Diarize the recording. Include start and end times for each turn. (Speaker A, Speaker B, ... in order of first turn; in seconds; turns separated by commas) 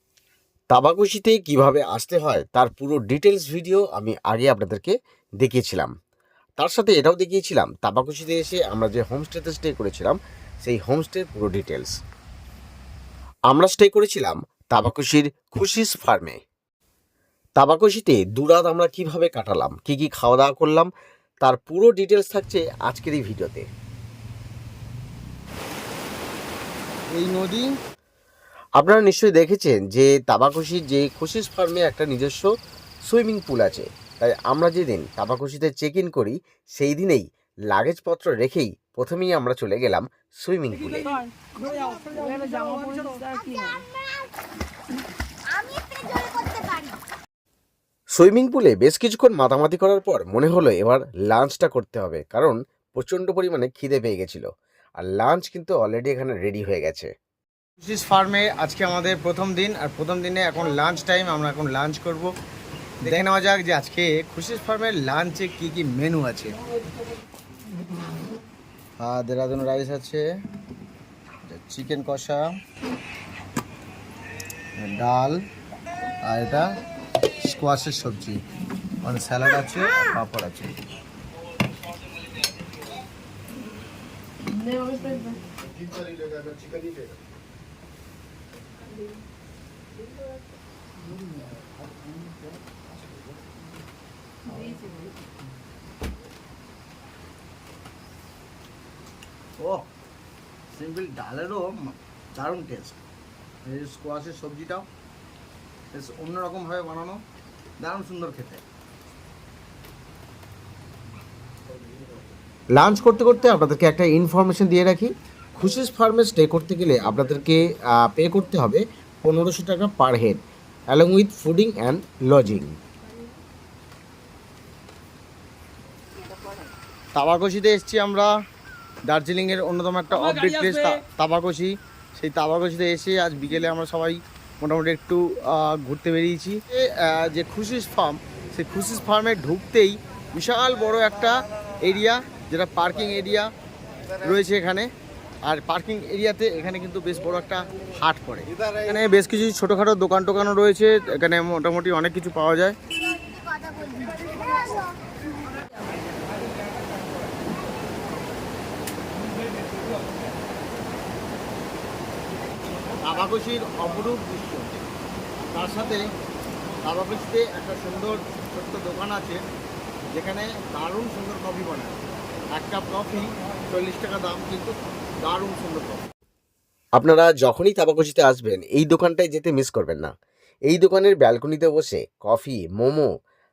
Speaker A: 0.7-5.9, Speaker A: 6.6-11.9, Speaker A: 13.5-16.4, Speaker A: 17.6-20.9, Speaker A: 21.4-23.7, Speaker B: 27.1-27.7, Speaker A: 28.8-32.5, Speaker A: 33.1-41.2, Speaker C: 41.4-44.2, Speaker C: 45.5-47.0, Speaker A: 48.1-54.5, Speaker A: 55.0-57.1, Speaker B: 57.8-62.3, Speaker B: 63.0-66.5, Speaker B: 69.0-70.2, Speaker B: 71.5-72.4, Speaker B: 74.8-75.4, Speaker B: 76.2-76.7, Speaker B: 77.4-78.4, Speaker B: 79.0-80.7, Speaker C: 84.6-85.4, Speaker B: 99.6-99.8, Speaker B: 100.7-103.0, Speaker B: 103.7-104.9, Speaker B: 105.9-107.2, Speaker B: 107.8-108.6, Speaker A: 112.7-122.7, Speaker B: 127.2-128.3, Speaker B: 129.1-143.5, Speaker B: 144.2-144.9, Speaker B: 145.4-152.8, Speaker B: 163.0-164.9, Speaker B: 165.5-166.0, Speaker B: 166.8-169.4, Speaker B: 170.1-171.9, Speaker B: 172.5-176.1, Speaker A: 177.0-180.1, Speaker A: 180.7-183.1